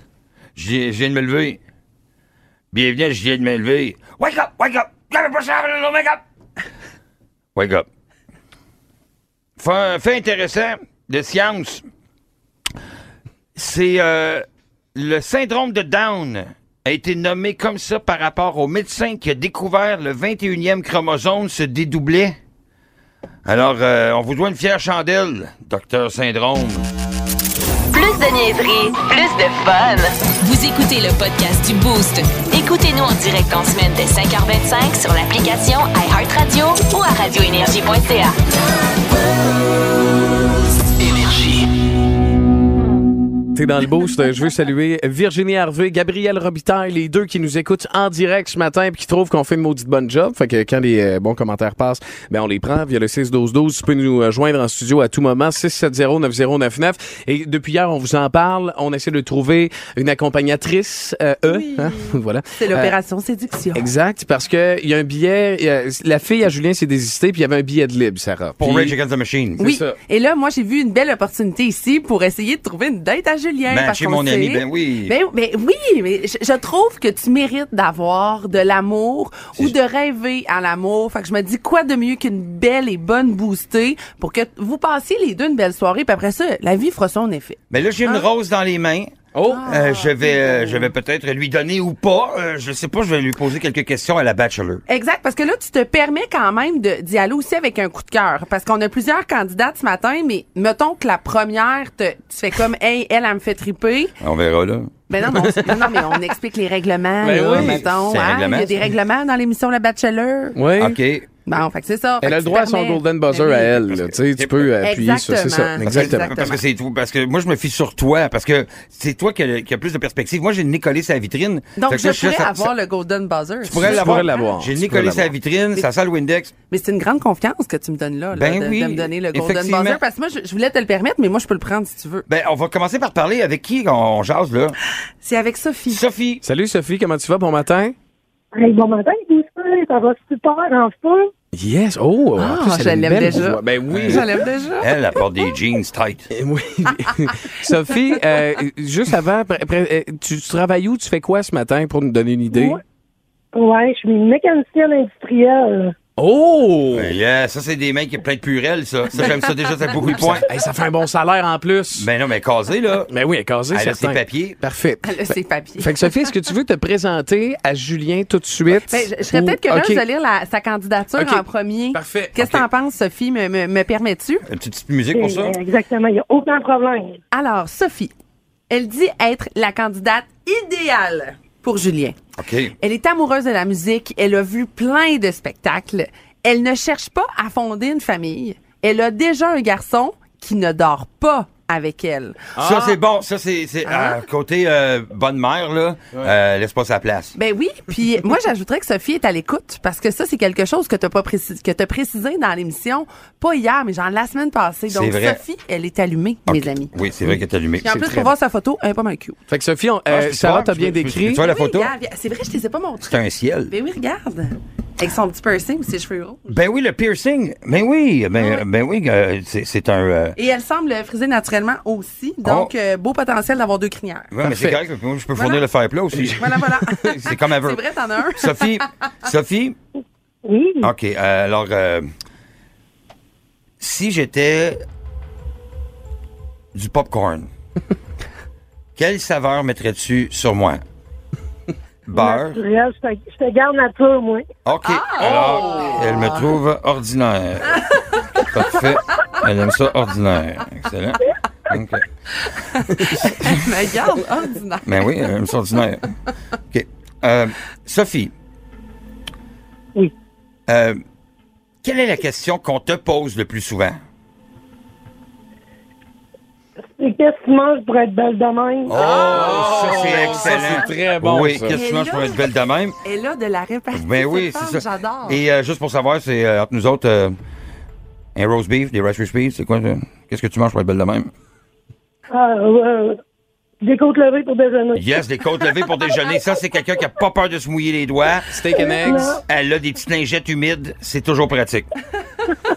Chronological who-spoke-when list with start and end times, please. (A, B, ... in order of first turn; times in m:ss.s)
0:00.6-0:01.6 A
0:02.7-0:06.2 A
0:07.6-0:07.8 A
0:09.6-0:11.8 A
0:13.6-0:14.4 A
0:15.0-0:22.4 A
0:23.5-0:26.9 A
0:27.9-0:38.3 B
0:41.1-0:41.6 B
0:43.5-1:03.0 C
1:01.5-1:02.0 D
1:02.6-1:03.9 D
1:03.8-1:09.0 C
1:08.6-1:09.6 A
1:09.6-1:10.0 C
1:09.6-1:28.3 D
1:13.7-1:15.2 A
1:27.7-1:34.8 A
1:29.4-1:29.7 C
1:29.5-1:30.9 D
1:34.9-1:44.2 D
1:44.2-1:44.9 A
1:45.1-1:50.6 D
1:45.3-1:46.2 C
1:47.2-1:47.8 C
1:47.5-1:48.8 A
1:50.6-1:51.0 C
1:50.8-1:51.3 A
1:51.5-1:53.8 D
1:52.2-1:56.4 C
1:54.4-1:54.7 A
1:54.8-1:56.6 D
1:55.9-2:02.7 A
2:01.8-2:04.5 D
2:03.6-2:06.5 A
2:03.7-2:05.3 C
2:06.7-2:12.3 D
2:08.3-2:10.0 A
2:12.3-2:14.8 A
2:15.2-2:16.0 D
2:15.9-2:16.4 A
2:16.4-2:17.9 C
2:18.5-2:21.3 E
2:21.5-2:24.3 C
2:22.4-2:25.0 D
2:23.9-2:24.2 A
2:24.8-2:26.3 A
2:26.3-2:32.8 C
2:33.5-2:35.9 E
2:36.2-2:37.1 C
2:36.9-2:40.5 A
2:40.4-2:42.1 C
2:42.0-2:43.1 A
2:43.1-2:50.0 C
2:43.7-2:44.6 A
2:45.0-2:46.0 D
2:48.8-2:54.4 D
2:51.2-2:52.6 C
2:54.5-2:55.6 A
2:55.1-2:57.2 E
2:57.3-2:58.1 D
2:58.7-3:02.2 D
3:02.4-3:02.8 A
3:02.8-3:12.5 D
3:12.6-3:13.0 C
3:12.6-3:17.4 A
3:13.9-3:14.2 D
3:17.4-3:26.9 D
3:24.9-3:25.4 A
3:26.5-3:27.9 A
3:27.3-3:28.3 C
3:27.8-3:29.4 D
3:29.5-3:31.4 C
3:30.1-3:31.9 A
3:31.4-3:33.1 D
3:33.0-3:33.7 A
3:33.7-3:36.6 D
3:36.5-3:40.4 A
3:38.4-3:38.6 D
3:40.4-3:44.3 D
3:42.4-3:42.7 A
3:44.3-3:46.4 A
3:44.4-3:44.8 C
3:45.3-3:45.6 D
3:46.3-3:48.8 D
3:47.1-3:47.8 A
3:48.4-3:49.8 A
3:50.4-3:50.9 E
3:50.8-3:52.1 A
3:53.8-3:54.8 A
3:56.8-3:57.5 A
3:59.0-4:00.8 A
4:02.1-4:02.6 A
4:02.2-4:04.4 E
4:04.6-4:07.8 A
4:04.8-4:06.4 D
4:08.4-4:12.0 A
4:12.5-4:15.1 D
4:13.3-4:13.7 A
4:14.9-4:16.1 A
4:16.7-4:18.3 A
4:20.7-4:21.0 A
4:21.8-4:24.0 A
4:27.0-4:28.9 E
4:28.9-4:33.0 A
4:29.0-4:30.8 D
4:29.3-4:31.8 C
4:31.7-4:32.5 D
4:33.0-4:35.4 D
4:33.9-4:37.4 A
4:38.4-4:41.3 A
4:42.3-4:43.2 E
4:43.8-4:45.0 E
4:45.0-4:48.5 A
4:48.5-4:49.4 C
4:48.7-4:49.4 E
4:49.5-4:51.9 A